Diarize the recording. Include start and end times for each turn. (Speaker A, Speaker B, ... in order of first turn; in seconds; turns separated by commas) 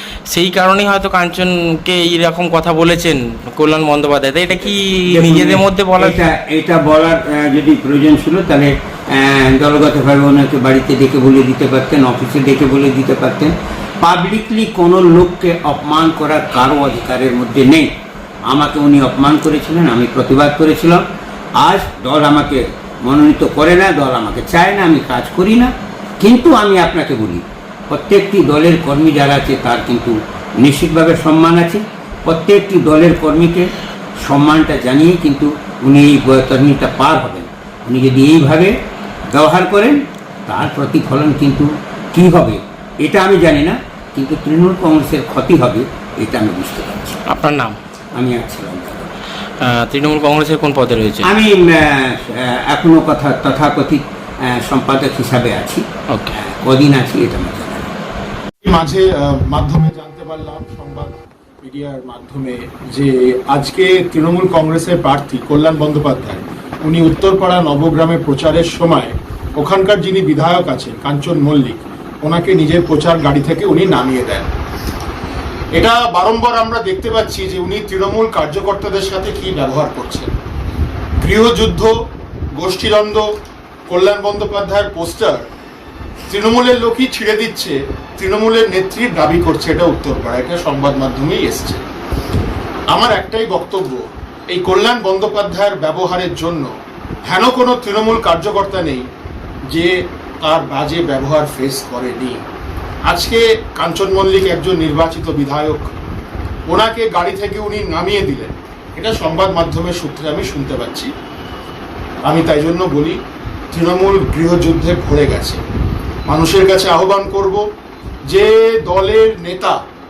Speaker A: 0.3-6.2, Speaker B: 5.1-17.9, Speaker B: 18.5-21.0, Speaker B: 21.6-33.7, Speaker B: 34.2-38.7, Speaker B: 39.3-47.2, Speaker A: 47.3-47.8, Speaker B: 48.1-49.1, Speaker A: 49.6-51.3, Speaker B: 51.2-57.9, Speaker C: 58.6-74.5, Speaker C: 75.7-80.3, Speaker C: 81.2-81.9, Speaker C: 82.5-83.2, Speaker C: 83.9-85.5, Speaker C: 86.2-91.8, Speaker C: 92.9-96.7, Speaker C: 97.3-99.0, Speaker C: 99.7-102.4, Speaker C: 103.0-105.9, Speaker C: 106.7-111.1, Speaker C: 112.2-113.2, Speaker C: 113.7-115.6, Speaker C: 116.3-117.6, Speaker C: 118.3-119.8